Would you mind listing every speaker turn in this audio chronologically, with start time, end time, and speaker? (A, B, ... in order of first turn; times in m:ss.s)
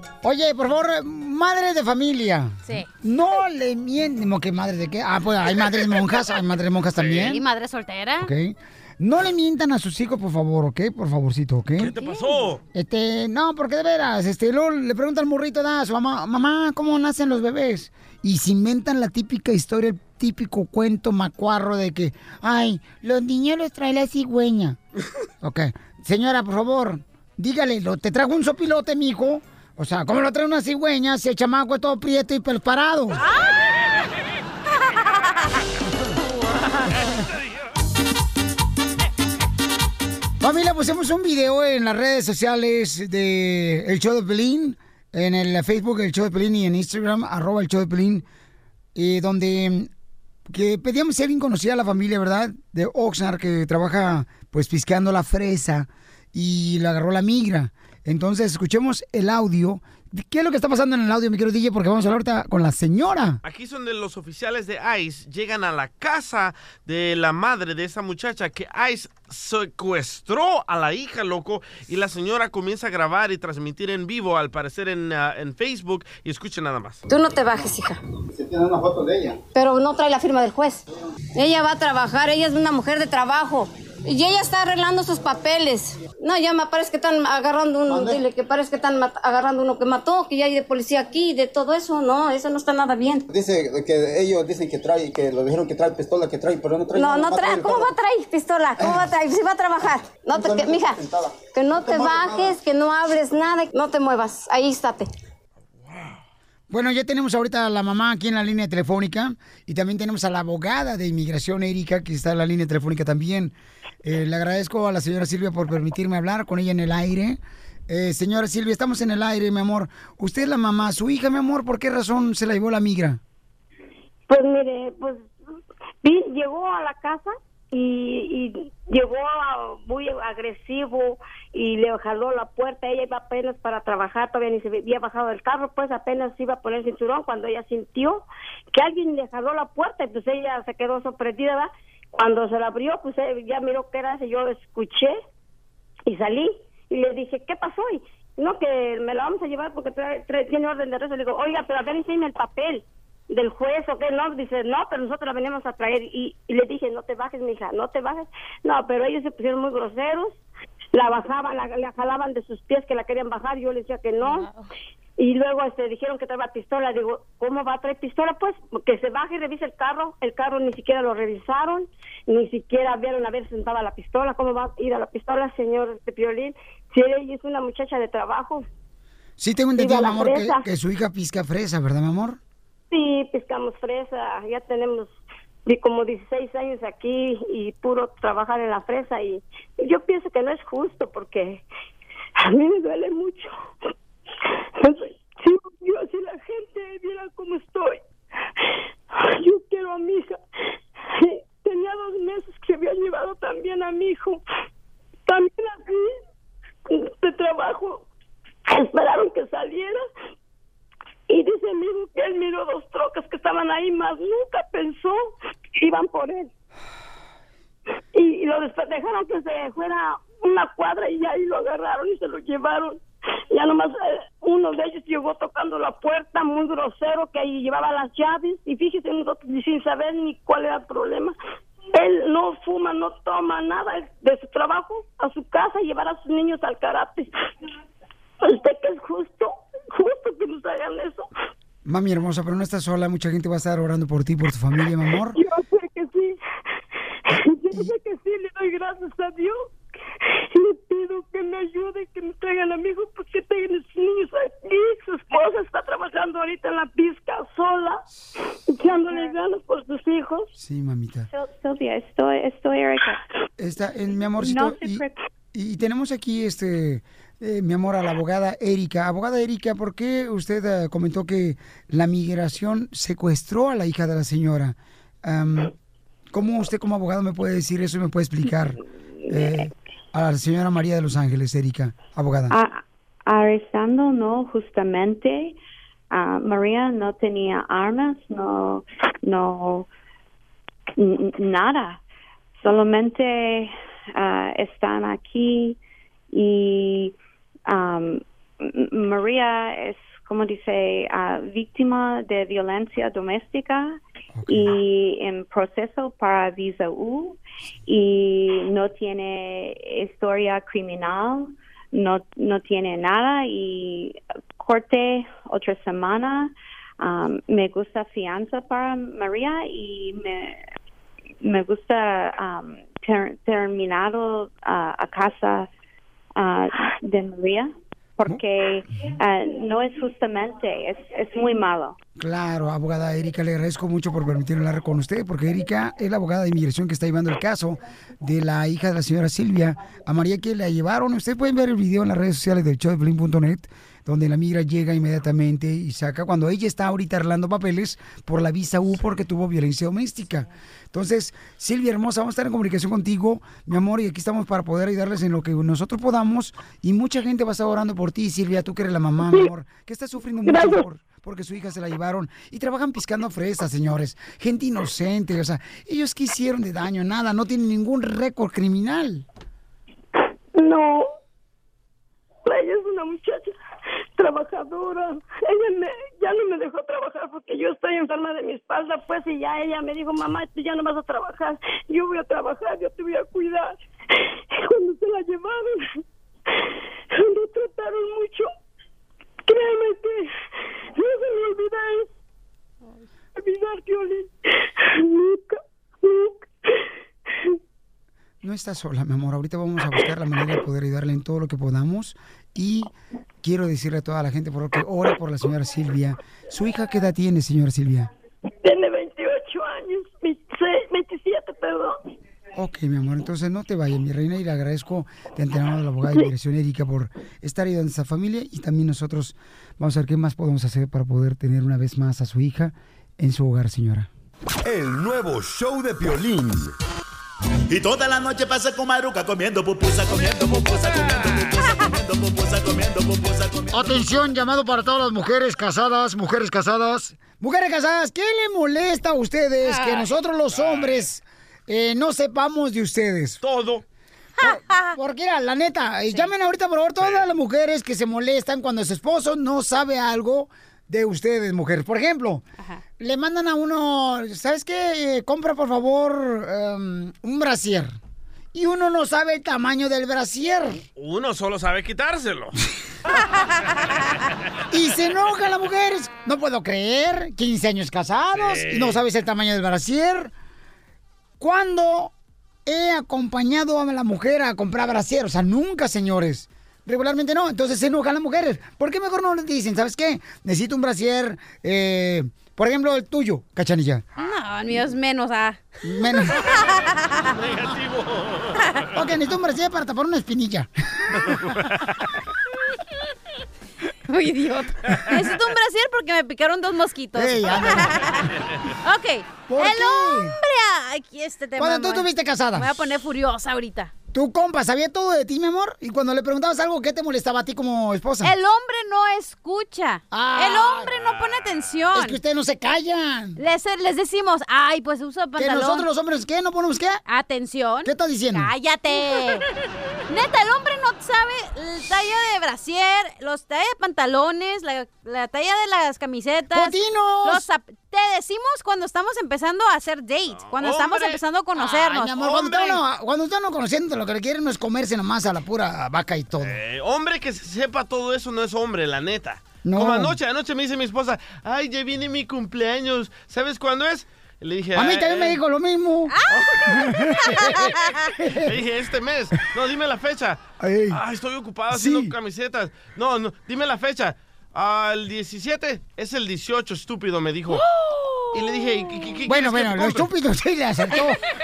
0:00.2-0:07.4 A
0:07.0-0:07.3 B
0:07.1-0:08.3 C
0:08.2-0:11.9 A
0:11.8-0:12.6 B
0:12.7-0:24.8 A
0:25.4-0:33.2 A
0:36.4-0:36.9 C
0:40.4-0:48.2 A
0:48.9-0:49.9 A
0:50.5-1:03.4 A
1:03.4-1:17.0 B
1:17.1-1:18.0 D
1:18.3-1:19.4 E
1:19.5-1:20.8 D
1:21.4-1:33.2 D
1:27.9-1:28.2 E
1:33.3-1:37.9 E
1:36.9-1:41.0 D
1:38.8-1:39.1 E
1:40.3-1:42.6 E
1:41.5-1:45.1 D
1:45.8-1:46.2 B
1:46.7-2:03.2 A
2:04.3-2:05.2 F
2:06.0-2:25.1 F
2:26.0-2:40.4 F
2:40.9-2:44.5 F
2:45.2-2:58.6 F
2:59.4-3:02.4 A
2:59.8-3:00.7 F
3:02.9-3:11.6 F
3:12.4-3:13.5 F
3:14.8-3:18.0 F
3:19.1-3:20.3 F
3:21.1-3:24.4 F
3:25.3-3:26.1 F
3:26.9-3:28.1 F
3:28.7-3:30.0 F
3:31.3-3:35.2 F
3:35.8-3:36.5 F
3:38.1-3:43.0 F
3:43.5-3:51.3 F
3:51.9-3:57.3 F
3:58.4-4:01.2 F
4:01.8-4:05.4 A
4:05.3-4:06.4 F
4:07.3-4:09.7 F
4:10.5-4:18.0 F
4:18.7-4:20.5 F
4:20.6-4:21.3 A
4:21.3-4:23.1 G
4:23.6-4:35.7 A
4:24.4-4:25.1 G
4:36.3-4:42.6 A
4:42.5-4:45.6 G
4:46.1-4:49.9 G
4:51.0-4:52.0 G
4:52.6-4:55.8 G
4:56.3-4:57.1 G
4:57.7-5:20.6 G
5:04.3-5:04.8 A
5:21.4-5:25.7 G
5:26.4-5:32.0 G
5:32.2-6:09.2 A
6:00.4-6:00.8 F
6:10.6-6:11.0 F
6:12.4-6:13.5 F
6:14.1-6:23.8 F
6:24.5-6:25.8 F
6:27.1-6:28.5 F
6:29.5-6:30.3 F
6:30.9-6:32.0 F
6:33.4-6:34.3 F
6:34.9-6:36.4 F
6:38.4-6:42.9 A
6:43.4-6:48.1 A
6:48.6-6:52.0 F
6:52.6-7:04.1 A
7:04.6-7:06.7 H
7:07.7-7:14.2 I
7:10.9-7:11.2 B
7:13.7-7:23.4 A
7:19.6-7:20.1 C
7:20.5-7:21.1 B
7:23.4-7:23.8 B
7:24.4-7:24.9 C
7:24.4-7:32.4 A
7:27.0-7:27.2 B
7:33.0-7:37.9 A
7:38.5-7:40.8 A
7:41.0-7:42.6 B
7:44.7-7:50.3 A
7:48.3-7:49.0 B
7:51.4-7:52.1 A
7:52.6-8:04.0 A
8:04.2-8:05.6 C
8:05.8-8:06.4 A
8:06.5-8:07.3 C
8:07.3-8:08.9 B
8:08.9-8:11.2 A
8:11.2-8:11.8 B
8:14.1-8:18.3 C
8:17.1-8:18.0 A
8:18.8-8:23.9 C
8:19.5-8:20.4 A
8:21.6-8:22.8 A
8:24.1-8:28.3 A
8:28.2-8:32.2 C
8:30.1-8:30.9 A
8:30.9-8:31.8 B
8:31.9-8:33.4 A
8:33.4-8:35.9 C
8:35.4-8:37.0 A
8:37.1-8:39.4 C
8:37.8-8:38.5 A
8:40.1-8:52.1 C
8:46.5-8:47.4 A
8:50.3-8:51.2 B
8:51.6-8:56.6 A
8:52.2-8:52.8 B
8:56.4-9:05.4 B
8:59.6-9:00.1 A
9:04.7-9:06.2 A
9:06.3-9:06.6 B
9:06.7-9:08.5 A
9:08.4-9:17.6 B
9:10.6-9:11.0 A
9:11.7-9:12.1 A
9:17.5-9:19.1 C
9:18.3-9:20.1 B
9:19.2-9:21.2 A